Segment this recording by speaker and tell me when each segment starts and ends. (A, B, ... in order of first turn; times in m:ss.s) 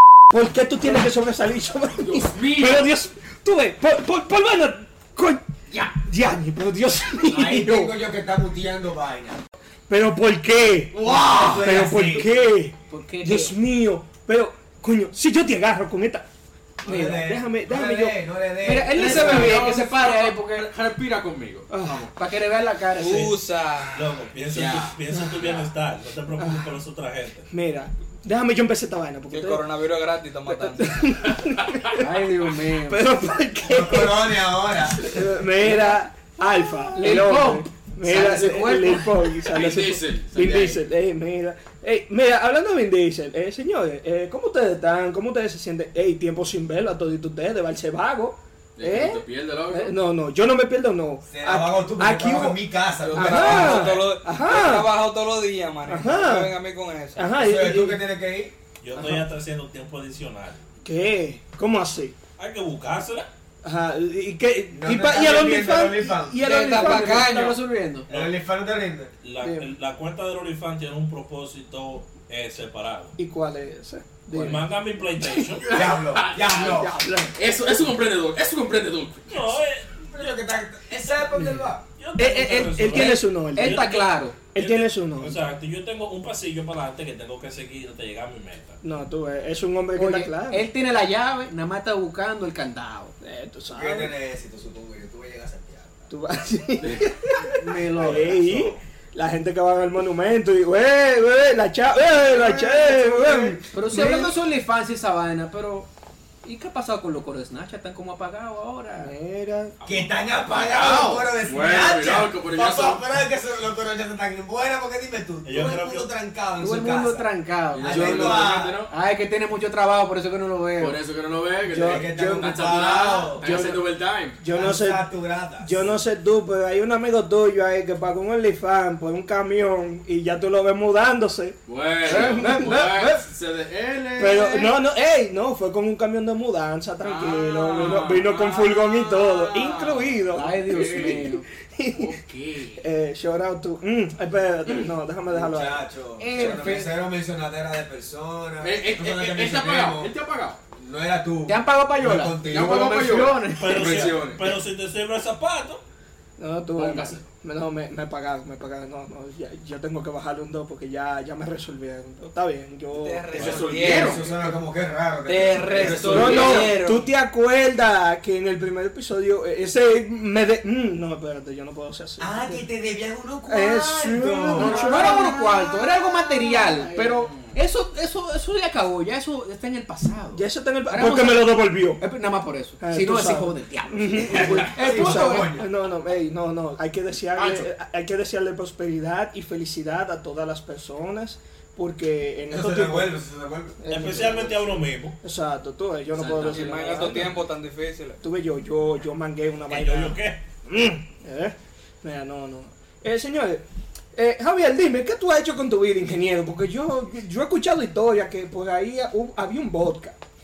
0:00.3-0:08.0 A
0:02.0-0:02.9 B
0:07.2-0:09.4 C
0:09.9-0:16.2 A
0:10.9-0:11.5 B
0:11.0-0:12.3 C
0:12.9-0:13.5 D
0:16.8-0:18.2 A
0:16.8-0:19.6 C
0:18.6-0:20.7 D
0:18.9-0:22.0 B
0:19.3-0:19.6 A
0:21.7-0:22.0 A
0:22.1-0:23.3 D
0:23.0-0:24.1 E
0:23.9-0:27.4 F
0:24.5-0:24.9 B
0:25.1-0:25.4 A
0:26.4-0:26.7 A
0:27.5-0:29.6 A
0:29.3-0:31.1 E
0:30.5-0:32.0 A
0:31.9-0:33.0 D
0:32.8-0:34.4 A
0:33.6-0:35.2 C
0:35.0-0:52.6 A
0:37.0-0:39.1 D
0:39.4-0:40.8 B
0:48.8-0:49.9 B
0:51.3-0:54.0 C
0:53.0-0:53.4 D
0:53.1-0:54.9 A
0:53.2-0:57.3 E
0:55.9-0:56.5 A
0:57.2-0:58.0 A
0:57.4-0:58.6 C
0:58.8-1:00.6 F
1:00.8-1:02.2 A
1:02.3-1:03.3 F
1:03.6-1:07.3 A
1:04.7-1:06.5 C
1:06.3-1:08.1 D
1:06.4-1:07.6 E
1:08.1-1:09.1 C
1:08.1-1:08.3 F
1:09.2-1:13.1 F
1:09.4-1:09.7 A
1:13.2-1:14.6 A
1:14.3-1:15.8 F
1:15.7-1:19.4 B
1:15.7-1:17.0 C
1:16.7-1:17.4 A
1:19.3-1:20.4 F
1:20.0-1:21.8 C
1:21.4-1:21.6 A
1:22.0-1:28.8 F
1:22.2-1:23.9 A
1:22.8-1:24.4 D
1:24.5-1:25.4 A
1:28.8-1:30.7 A
1:29.9-1:33.1 D
1:33.2-1:34.1 A
1:33.7-1:36.1 C
1:36.1-1:44.4 A
1:36.8-1:37.1 B
1:37.5-1:38.4 D
1:38.0-1:38.8 F
1:42.3-1:45.9 D
1:43.3-1:43.6 C
1:46.4-1:49.1 D
1:49.0-1:49.8 A
1:49.8-1:58.8 C
1:50.4-1:53.0 B
1:55.4-1:56.1 F
1:56.6-2:01.0 D
1:57.8-1:58.9 B
2:00.8-2:04.4 B
2:01.7-2:02.6 A
2:01.7-2:03.7 C
2:03.4-2:03.8 A
2:04.4-2:05.0 A
2:04.5-2:06.0 C
2:05.6-2:13.2 A
2:11.7-2:14.7 B
2:12.1-2:13.0 D
2:14.2-2:22.2 A
2:17.0-2:21.3 B
2:20.3-2:21.4 D
2:22.0-2:22.8 B
2:22.7-2:26.7 A
2:25.3-2:30.1 C
2:26.2-2:26.9 D
2:28.6-2:30.6 B
2:30.7-2:33.3 C
2:31.4-2:34.4 D
2:32.4-2:34.5 B
2:33.5-2:35.8 F
2:36.4-2:43.6 A
2:36.8-2:37.2 B
2:42.9-2:44.5 E
2:43.3-2:44.2 B
2:43.4-2:46.6 C
2:43.6-2:44.2 D
2:45.2-2:47.1 E
2:45.7-2:46.7 B
2:45.9-2:46.8 D
2:46.0-2:52.6 A
2:52.2-2:55.4 C
2:53.5-2:55.4 A
2:54.5-3:05.5 D
3:00.4-3:02.0 A
3:02.8-3:13.1 A
3:04.3-3:05.7 C
3:07.4-3:07.7 D
3:12.5-3:14.8 C
3:13.8-3:14.5 A
3:13.9-3:15.2 F
3:15.2-3:17.4 A
3:16.1-3:17.4 B
3:16.4-3:18.2 E
3:18.2-3:23.6 A
3:19.7-3:20.4 F
3:24.1-3:30.2 A